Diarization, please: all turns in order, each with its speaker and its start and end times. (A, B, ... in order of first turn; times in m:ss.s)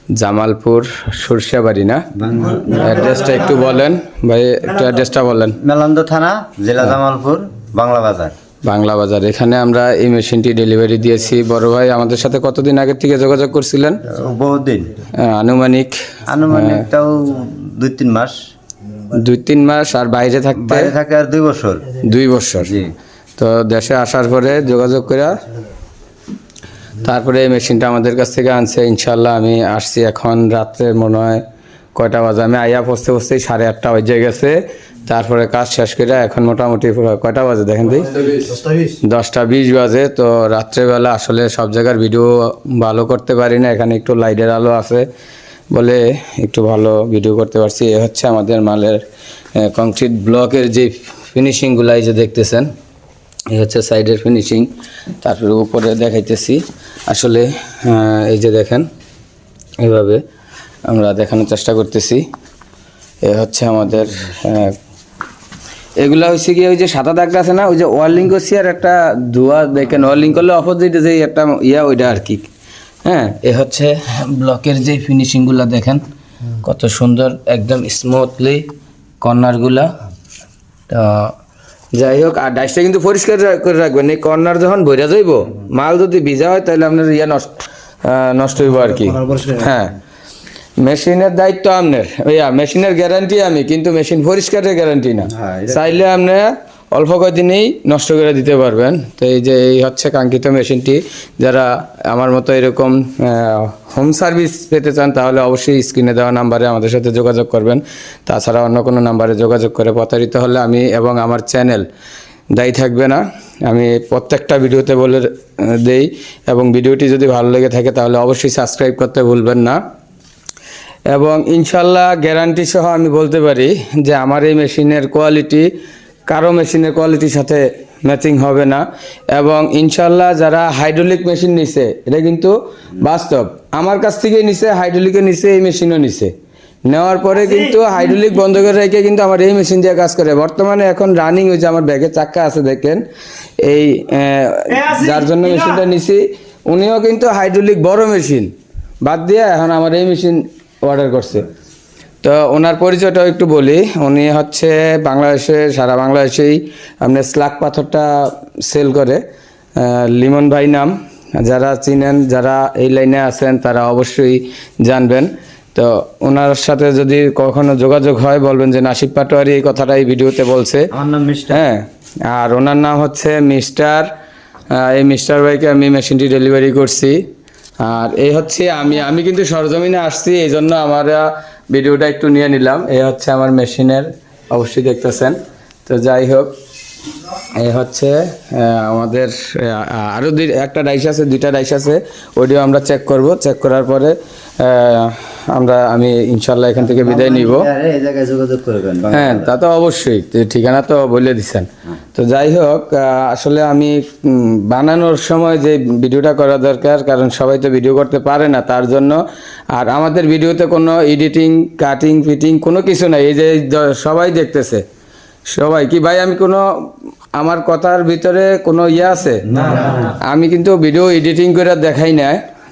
0:00.2-0:02.0 A
0:02.2-0:03.2 B
0:02.6-0:05.6 A
0:05.6-0:08.3 B
0:08.6-0:14.0 A
0:14.0-0:15.0 B
0:15.1-0:16.8 A
0:16.2-0:18.4 B
0:19.1-0:20.9 A
0:20.5-0:22.0 B
0:22.0-0:22.8 A
0:22.6-0:22.9 B
0:23.4-0:25.4 A
0:27.0-0:31.4 A
0:31.9-0:45.0 A
0:45.7-0:49.0 A
0:49.6-0:52.7 A
0:53.5-0:54.7 A
0:55.2-0:58.9 A
0:59.8-1:00.2 A
1:00.8-1:02.2 A
1:03.2-1:04.8 A
1:06.0-1:12.5 A
1:13.0-1:18.7 A
1:19.2-1:19.9 A
1:20.9-1:21.3 A
1:21.9-1:30.0 A
1:30.8-1:51.9 A
1:35.3-1:36.0 B
1:52.5-1:59.8 A
2:01.1-2:05.7 A
2:06.3-2:16.3 A
2:16.9-2:23.0 A
2:23.6-2:28.5 A
2:29.0-2:31.5 A
2:32.2-2:39.2 A
2:39.8-2:50.9 A
2:50.9-2:51.6 B
2:51.5-2:54.1 A
2:54.7-2:57.2 A
2:57.8-3:06.5 A
3:07.5-3:17.7 A
3:16.8-3:19.5 B
3:19.1-3:29.2 A
3:29.7-3:34.8 A
3:35.5-3:42.4 A
3:39.5-3:40.0 B